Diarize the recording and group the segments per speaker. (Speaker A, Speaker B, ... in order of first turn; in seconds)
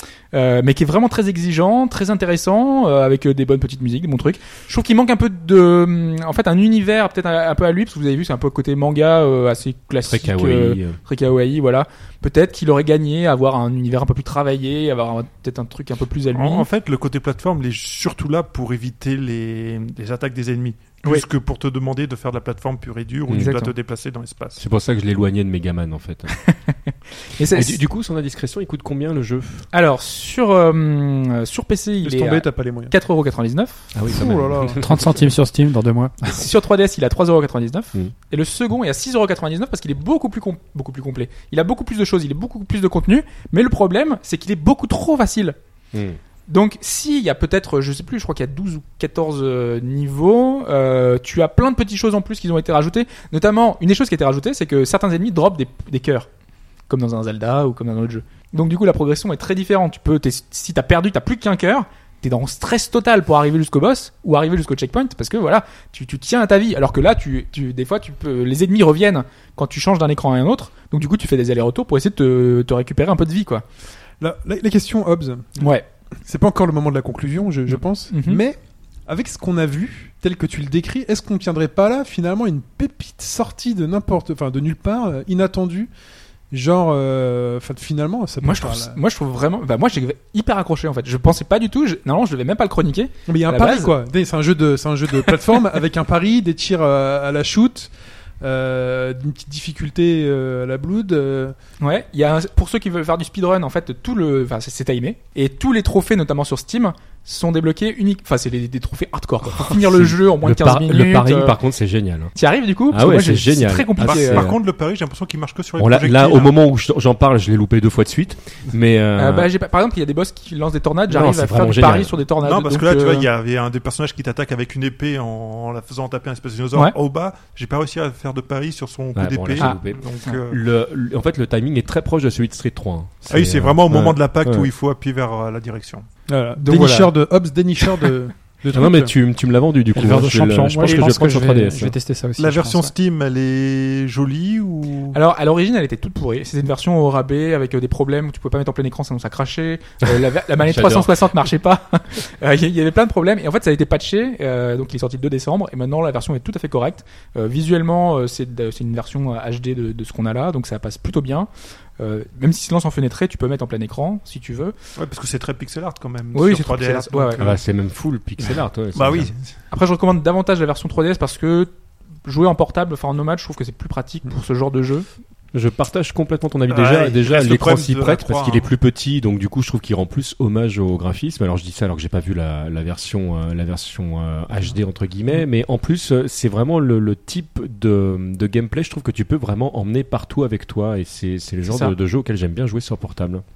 Speaker A: 0.3-16.7, 23.3-23.7, 26.4-27.8, 29.7-33.9, 36.2-45.5, 46.5-56.3, 56.9-73.6, 75.6-75.8, 77.7-78.4, 88.4-93.9, 101.8-111.6, 112.3-114.5, 119.2-123.3, 129.6-130.4, 136.6-137.1, 145.1-164.7, 166.3-167.5, 169.7-171.7, 172.2-175.1, 191.7-191.9
Speaker B: 10.0-11.0, 23.3-23.6, 24.6-26.4, 27.5-29.7, 33.9-35.3, 45.9-46.2, 109.5-112.3, 112.9-114.6, 115.8-119.5, 121.1-122.2, 129.1-134.7, 138.7-141.9, 150.6-151.2, 167.4-169.3, 175.5-193.4
Speaker C: 16.3-24.6, 114.0-116.5, 122.4-130.6, 133.3-136.1, 140.9-141.2, 142.4-145.2, 164.9-167.6, 168.9-169.4, 176.7-178.7
Speaker D: 32.0-32.9, 34.1-34.8, 74.2-75.7, 76.2-85.9, 86.5-89.0, 93.3-101.5, 136.3-139.1
Speaker E: 34.8-36.4, 139.9-142.9